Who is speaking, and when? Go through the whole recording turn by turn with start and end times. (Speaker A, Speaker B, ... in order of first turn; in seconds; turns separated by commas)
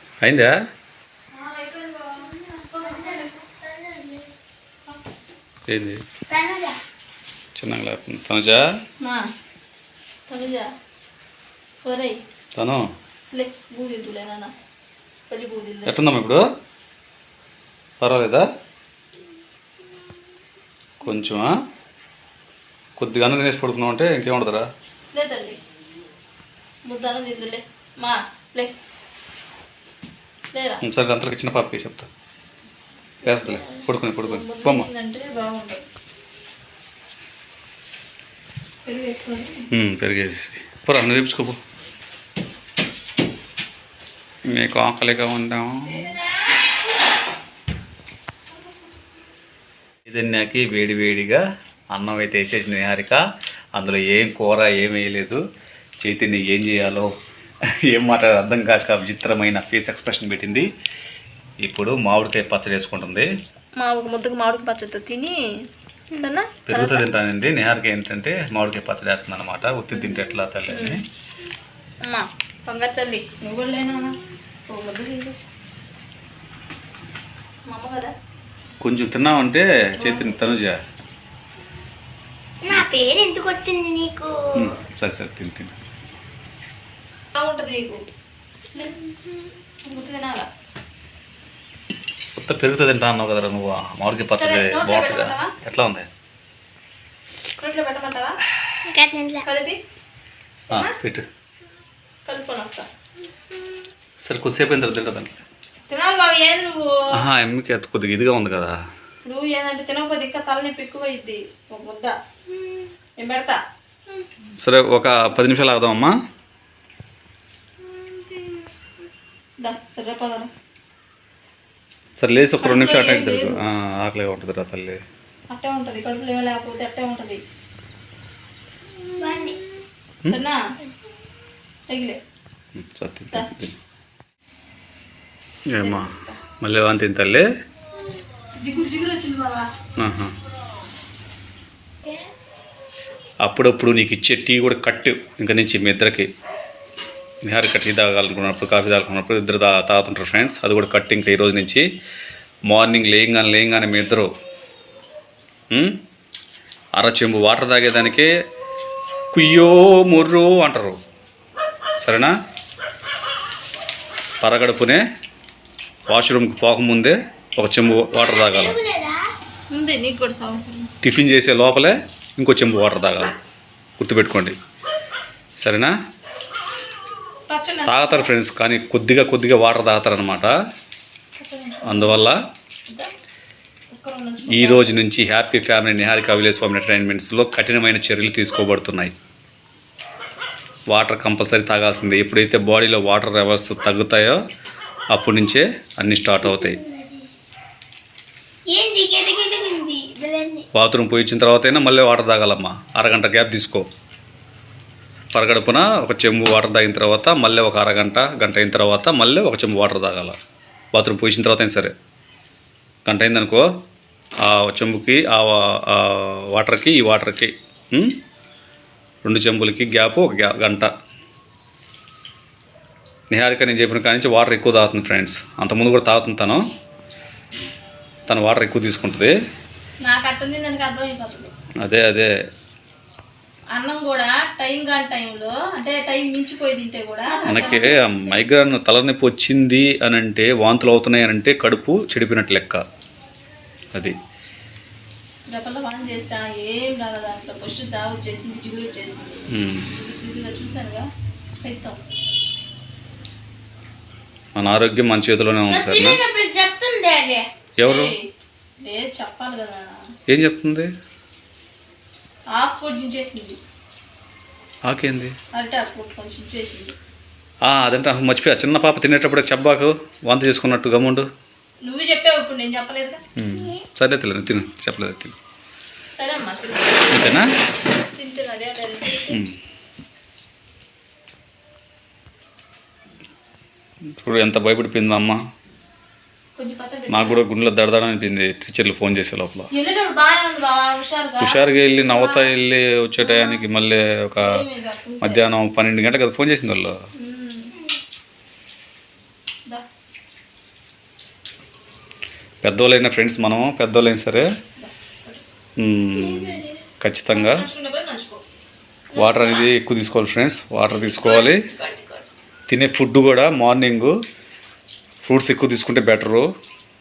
Speaker A: 0.2-0.5, Speaker B: 1.4-2.3, Speaker C: 1.6-4.3, Speaker B: 2.8-3.3, Speaker A: 5.7-6.0, Speaker C: 6.3-6.8, Speaker A: 7.6-8.6, Speaker B: 10.3-10.7, Speaker B: 11.8-12.2, Speaker A: 12.6-12.8, Speaker B: 13.3-14.5, Speaker B: 15.3-16.0, Speaker A: 15.9-16.4, Speaker A: 18.0-18.5, Speaker A: 21.0-21.5, Speaker A: 23.0-24.7, Speaker B: 25.1-25.6, Speaker B: 26.9-28.8, Speaker B: 30.5-30.8, Speaker A: 30.8-32.1, Speaker A: 33.2-34.9, Speaker B: 33.6-35.8, Speaker B: 38.9-39.6, Speaker A: 39.7-41.6, Speaker A: 44.5-46.1, Speaker A: 50.1-51.4, Speaker A: 51.9-53.2, Speaker A: 53.8-55.4, Speaker A: 56.0-57.1, Speaker A: 57.9-60.7, Speaker A: 61.6-63.3, Speaker B: 63.8-65.4, Speaker B: 66.1-67.1, Speaker A: 66.7-71.0, Speaker B: 70.0-71.0, Speaker B: 72.0-74.2, Speaker B: 74.7-75.4, Speaker B: 77.7-78.1, Speaker A: 78.8-80.8, Speaker B: 80.0-80.4, Speaker C: 82.6-84.7, Speaker A: 84.6-85.7, Speaker B: 87.3-88.0, Speaker B: 89.8-90.5, Speaker A: 92.4-96.1, Speaker B: 94.3-95.5, Speaker B: 97.6-98.4, Speaker C: 98.9-99.5, Speaker B: 99.5-99.8, Speaker A: 100.7-101.2, Speaker B: 102.3-102.9, Speaker A: 104.3-105.3, Speaker B: 105.9-106.9, Speaker A: 107.1-108.8, Speaker B: 109.2-112.2, Speaker B: 113.2-113.6, Speaker A: 114.6-116.1, Speaker B: 117.9-118.7, Speaker B: 119.6-120.5, Speaker A: 122.2-125.0, Speaker B: 122.6-123.6, Speaker B: 125.5-127.4, Speaker C: 129.2-129.6, Speaker B: 129.2-129.5, Speaker B: 130.3-130.6, Speaker B: 131.9-132.2, Speaker A: 132.8-133.8, Speaker A: 135.7-137.5, Speaker B: 135.8-136.4, Speaker B: 138.6-139.7, Speaker A: 140.0-140.3, Speaker A: 143.4-146.3, Speaker A: 147.5-151.8, Speaker A: 152.7-154.3, Speaker A: 155.7-156.0, Speaker A: 157.0-158.3, Speaker A: 159.3-161.0, Speaker A: 162.0-162.3, Speaker A: 164.4-165.0, Speaker A: 166.1-168.8, Speaker C: 168.0-169.3, Speaker B: 169.7-170.9, Speaker A: 171.0-173.3, Speaker A: 174.0-174.6, Speaker A: 175.6-175.9, Speaker B: 177.5-178.3, Speaker A: 177.9-180.5, Speaker B: 181.4-182.2, Speaker A: 181.8-182.4, Speaker B: 183.9-184.9, Speaker A: 184.5-189.1, Speaker A: 190.9-194.4, Speaker A: 195.1-196.8, Speaker C: 196.4-197.3, Speaker C: 198.7-200.7, Speaker A: 200.8-203.9, Speaker A: 205.3-210.4, Speaker A: 210.9-211.9, Speaker A: 213.1-213.6, Speaker A: 214.4-218.2, Speaker A: 219.2-220.9, Speaker A: 223.3-226.6, Speaker A: 228.3-229.3, Speaker B: 230.1-231.5, Speaker A: 231.8-232.3, Speaker B: 233.8-238.2, Speaker A: 237.5-242.8, Speaker B: 245.5-251.1, Speaker A: 249.5-249.9, Speaker B: 251.6-252.0, Speaker A: 254.6-256.2, Speaker C: 255.7-257.5, Speaker A: 257.8-258.1, Speaker B: 257.8-258.3, Speaker B: 258.8-259.9, Speaker A: 260.3-260.9, Speaker B: 262.6-263.6, Speaker A: 264.9-265.4, Speaker B: 265.5-266.9, Speaker A: 267.6-271.3, Speaker B: 271.9-273.2, Speaker A: 273.4-275.3, Speaker C: 273.5-273.8, Speaker B: 276.2-279.4, Speaker A: 277.1-277.5, Speaker A: 284.2-285.4, Speaker B: 286.6-287.4, Speaker A: 287.1-289.7, Speaker B: 289.7-292.5, Speaker A: 291.4-294.5, Speaker B: 293.2-293.6, Speaker B: 294.4-295.4, Speaker A: 295.2-296.9, Speaker B: 297.2-297.7, Speaker A: 302.6-304.5, Speaker B: 304.8-305.4, Speaker A: 305.8-307.6, Speaker C: 306.1-306.8, Speaker B: 307.3-308.4, Speaker A: 309.2-311.6, Speaker B: 309.2-309.5, Speaker C: 309.2-309.6, Speaker B: 311.0-311.8, Speaker C: 311.4-312.2, Speaker A: 312.7-314.1, Speaker A: 315.2-316.5